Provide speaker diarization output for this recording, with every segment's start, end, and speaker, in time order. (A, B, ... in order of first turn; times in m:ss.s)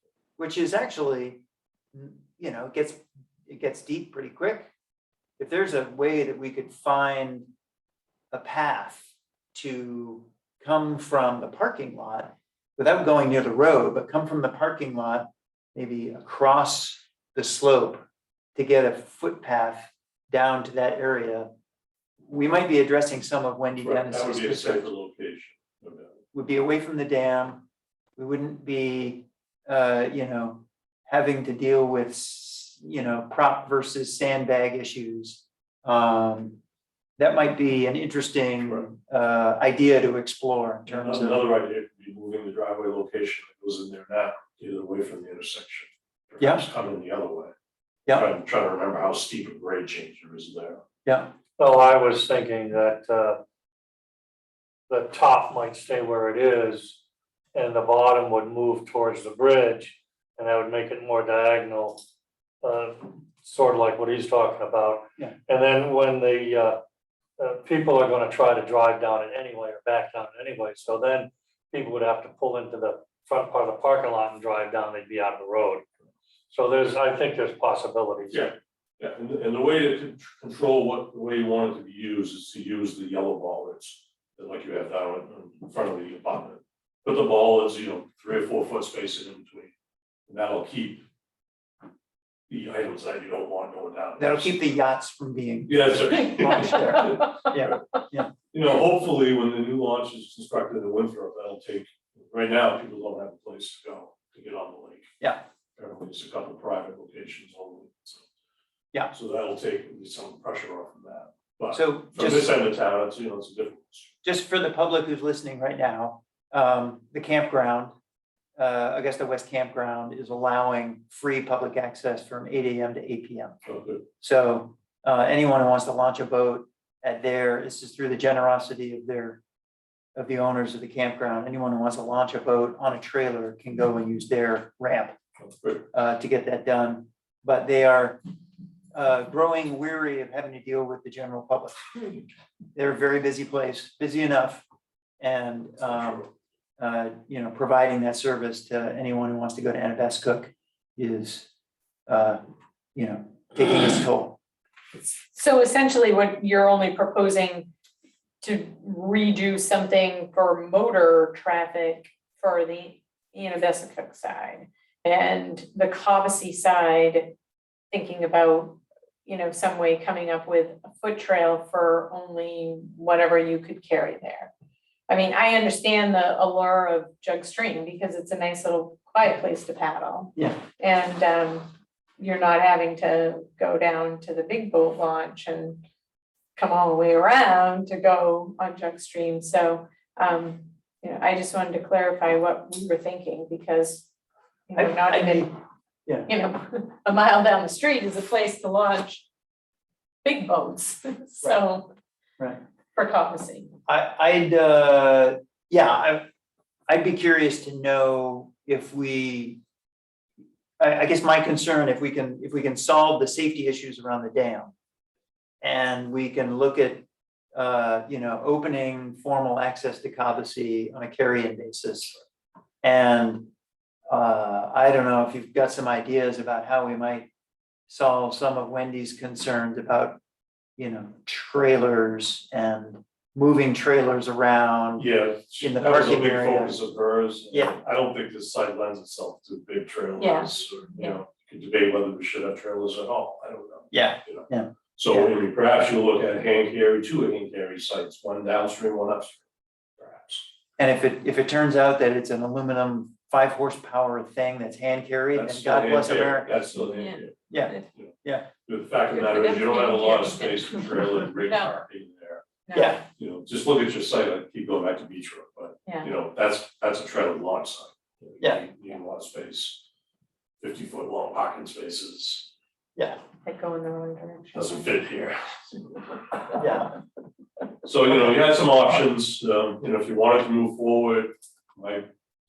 0:00.4-0:01.4 A
0:01.9-0:04.7 A
0:05.4-0:07.5 A
0:08.3-0:18.0 A
0:18.6-0:21.5 A
0:22.2-0:24.9 A
0:23.8-0:26.2 B
0:26.3-0:27.6 A
0:28.2-0:36.6 A
0:37.2-0:41.4 A
0:40.9-0:47.5 B
0:46.4-0:46.6 A
0:48.1-0:50.8 B
0:51.0-0:51.3 A
0:51.6-0:53.4 C
0:54.9-0:57.0 C
0:57.5-1:02.0 C
1:02.6-1:06.8 C
1:07.4-1:15.8 C
1:16.5-1:18.5 C
1:18.3-1:29.7 B
1:30.3-1:31.0 B
1:32.5-1:34.7 B
1:34.2-1:38.3 A
1:35.7-1:37.8 B
1:38.4-1:45.1 B
1:45.8-1:48.2 B
1:49.1-1:54.1 B
1:51.7-1:52.5 A
1:54.2-1:57.9 A
1:58.6-2:03.6 A
2:03.6-2:04.0 B
2:04.2-2:09.4 A
2:10.2-2:15.2 A
2:15.4-2:15.8 B
2:15.9-2:18.2 A
2:18.9-2:21.9 A
2:22.7-2:24.6 A
2:25.2-2:26.2 A
2:26.0-2:26.3 B
2:26.8-2:31.5 A
2:32.1-2:32.4 A
2:32.9-2:34.4 A
2:34.9-2:37.7 D
2:38.4-2:47.3 D
2:47.9-2:54.5 D
2:55.1-3:01.7 D
3:02.2-3:05.8 D
3:06.6-3:14.1 D
3:14.7-3:15.5 D
3:14.8-3:15.5 A
3:16.2-3:19.2 D
3:20.2-3:21.9 D
3:22.9-3:23.8 D
3:23.9-3:26.2 A
3:26.9-3:29.6 A
3:30.8-3:34.7 A
3:35.6-3:42.2 A
3:42.8-3:43.5 A
3:44.1-3:47.3 A
3:47.9-3:50.2 A
3:50.8-3:55.0 A
3:55.0-4:09.4 B
3:55.6-3:56.8 A
4:00.2-4:01.2 D
4:03.9-4:05.3 A
4:10.0-4:10.5 B
4:10.8-4:16.6 A
4:15.3-4:17.4 B
4:16.8-4:17.9 D
4:17.5-4:18.5 A
4:18.6-4:22.6 B
4:19.1-4:20.9 D
4:21.4-4:21.7 D
4:22.6-4:23.0 D
4:22.7-4:23.0 A
4:23.2-4:29.8 B
4:25.8-4:26.1 D
4:30.6-4:32.5 B
4:33.4-4:34.9 D
4:34.5-4:36.2 B
4:36.6-4:36.9 A
4:37.8-4:42.0 B